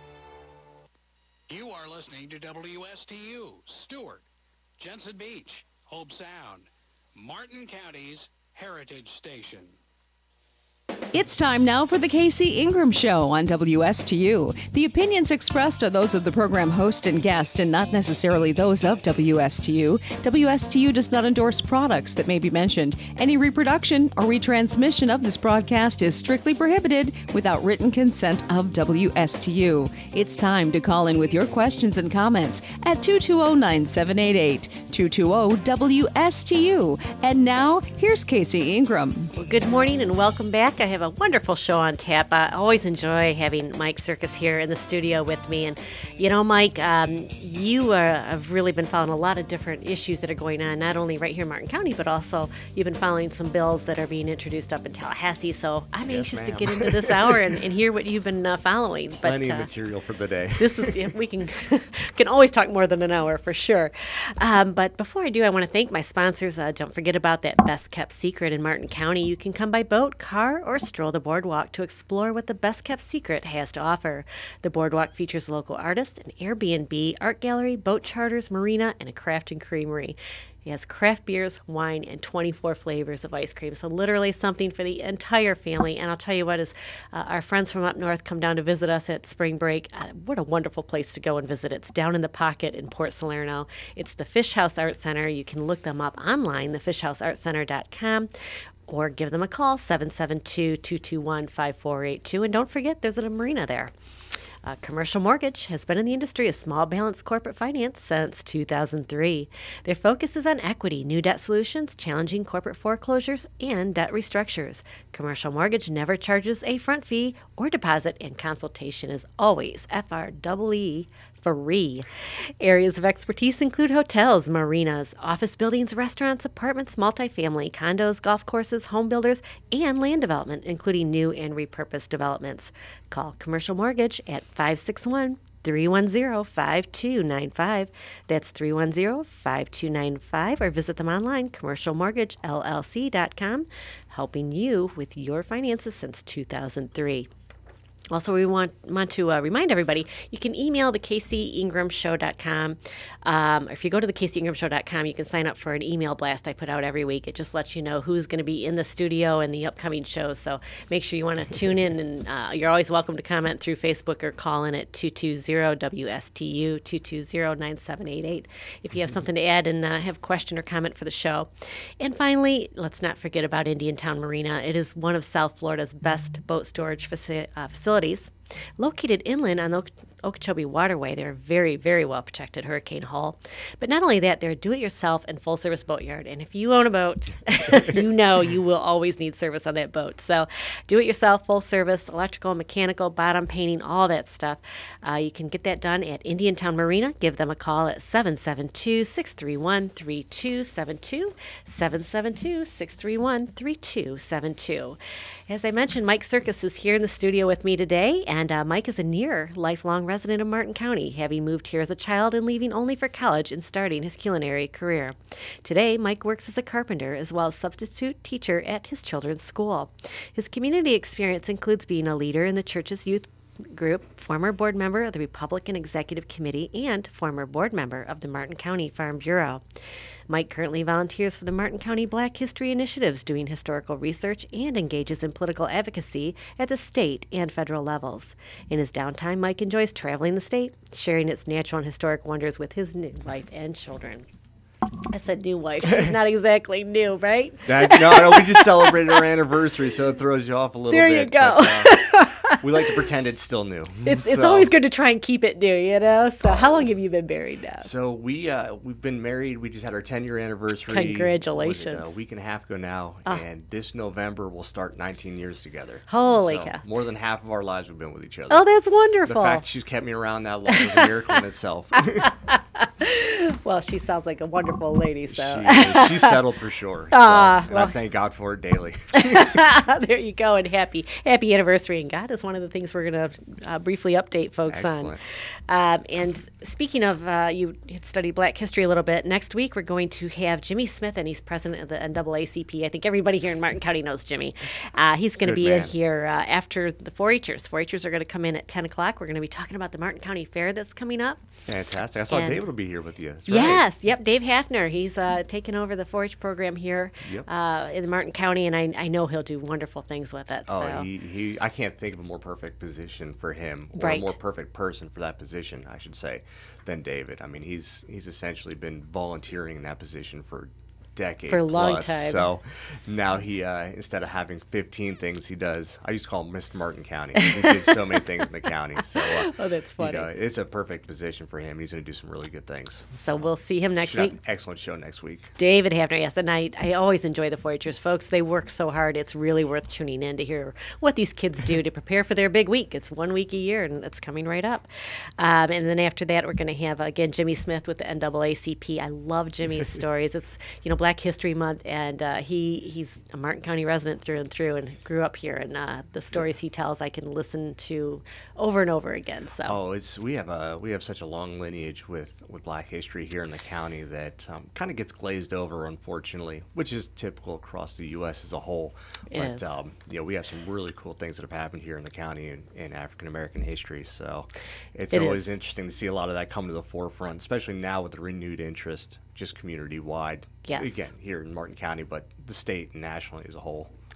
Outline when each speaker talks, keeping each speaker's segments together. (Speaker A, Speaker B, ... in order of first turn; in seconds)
Speaker A: 1.5-4.2, 4.8-9.8
Speaker B: 11.1-39.3
Speaker C: 39.3-59.7, 60.6-98.3, 98.9-103.9, 104.6-147.3, 148.1-171.5, 172.0-229.6, 230.3-244.2, 245.0-249.2, 250.9-253.0, 254.0-257.9, 260.9-262.2, 266.1-266.8, 268.5-269.6, 270.7-271.1, 272.2-276.4, 277.1-277.9, 279.1-301.4, 302.3-302.6, 303.5-311.1, 313.9-314.3, 321.5-322.5, 327.4-328.0, 329.2-330.3, 333.1-334.4, 335.6-344.9, 345.4-359.8, 369.3-369.8, 375.1-375.5, 380.6-381.1
Speaker D: 56.1-57.4, 59.2-61.0, 247.6-254.7, 256.4-256.9, 257.8-268.6, 269.2-272.3, 275.3-279.6, 284.7-285.2, 295.4-295.9, 301.6-303.9, 310.7-333.4, 334.0-335.5, 359.6-383.9